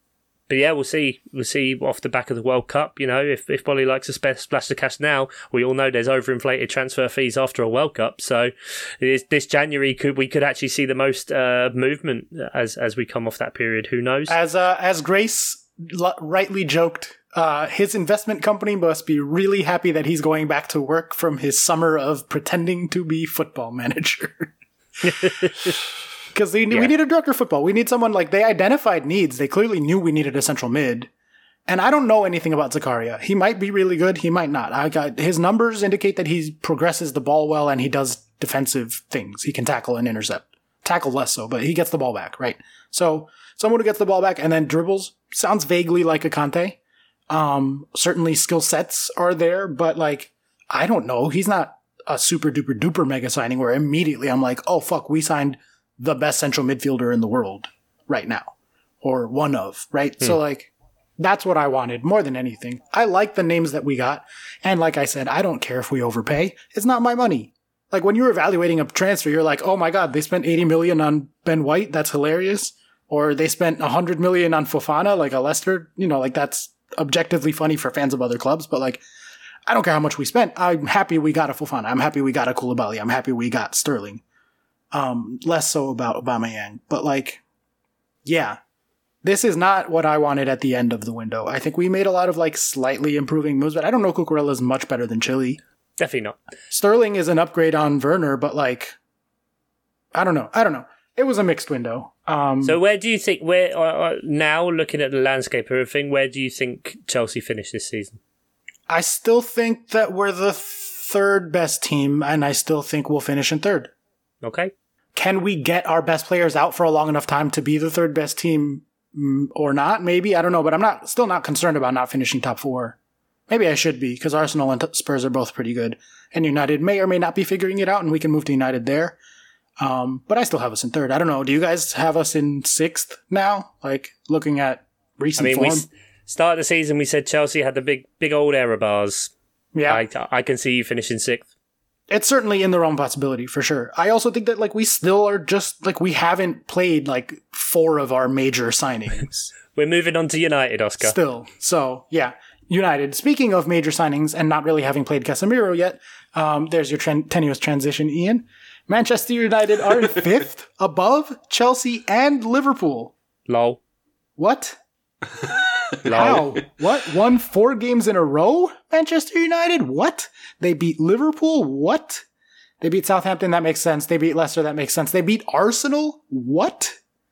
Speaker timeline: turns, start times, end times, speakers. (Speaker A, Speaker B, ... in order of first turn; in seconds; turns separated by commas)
Speaker A: 0.5-14.3, Speaker B: 14.3-24.5, Speaker A: 25.0-25.8, Speaker B: 26.3-31.1, Speaker B: 31.7-46.8, Speaker B: 47.3-79.0, Speaker B: 79.7-84.2, Speaker B: 84.9-87.4, Speaker B: 88.2-88.6, Speaker B: 89.2-95.6, Speaker A: 96.0-96.4, Speaker B: 96.7-99.0, Speaker B: 100.2-102.8, Speaker A: 102.6-108.2, Speaker B: 108.9-113.9, Speaker A: 114.4-114.7, Speaker B: 115.2-123.0, Speaker B: 123.5-129.2, Speaker B: 129.8-135.9, Speaker A: 135.4-139.3, Speaker B: 139.7-140.0, Speaker A: 139.9-141.5, Speaker B: 142.1-149.5, Speaker A: 149.7-151.2, Speaker B: 151.0-163.1, Speaker A: 163.5-163.8, Speaker B: 164.4-164.8, Speaker A: 166.0-166.5, Speaker B: 166.1-172.2, Speaker B: 172.8-177.0